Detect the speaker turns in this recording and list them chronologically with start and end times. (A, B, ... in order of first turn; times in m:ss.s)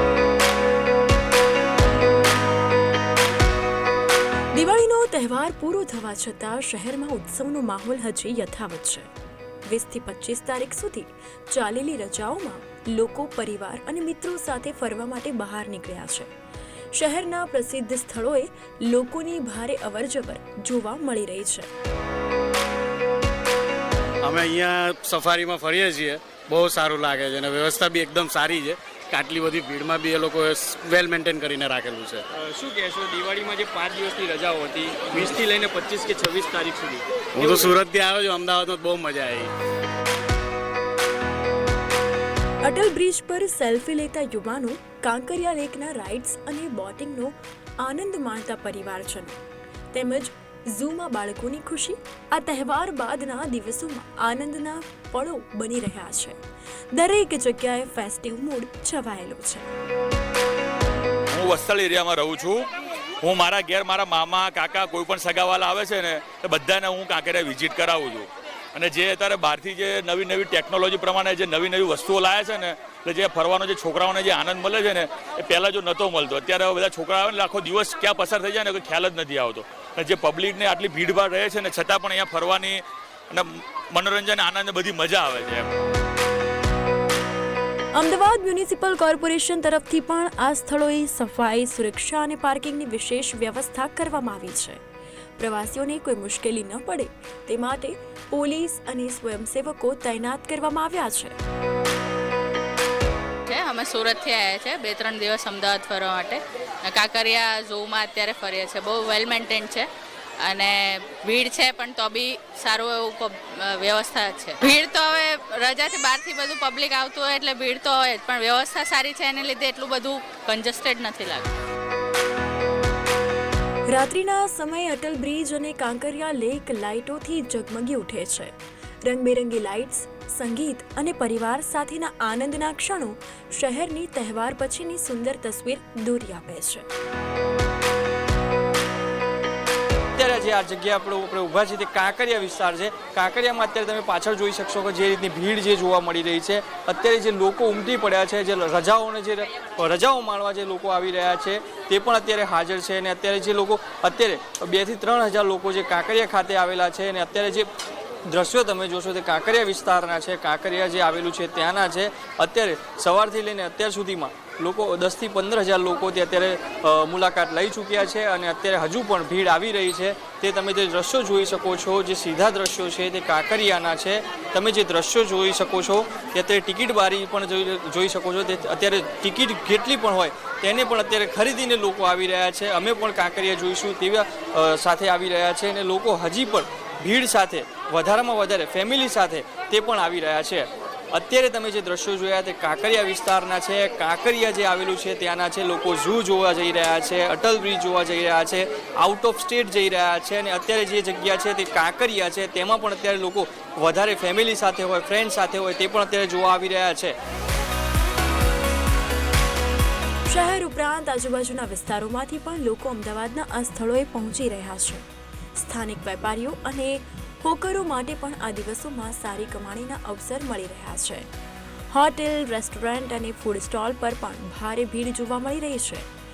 0:04.5-0:09.1 A
0:09.7-0:16.3 A
0:16.9-0:21.7 A
0:24.2-0:32.2 B
0:32.3-0:37.8 C
0:37.4-0:39.5 B
0:42.6-0:49.4 A
0:49.9-0:56.4 A
0:56.9-0:59.7 A
1:01.3-1:02.7 D
1:03.2-1:25.7 D
1:27.9-1:34.8 A
1:35.4-1:41.4 A
1:43.5-1:49.9 E
1:50.4-2:01.5 E
2:03.9-2:16.9 A
2:20.2-2:37.7 C
2:38.3-3:27.2 C
3:30.3-3:41.3 A
3:41.9-3:46.1 A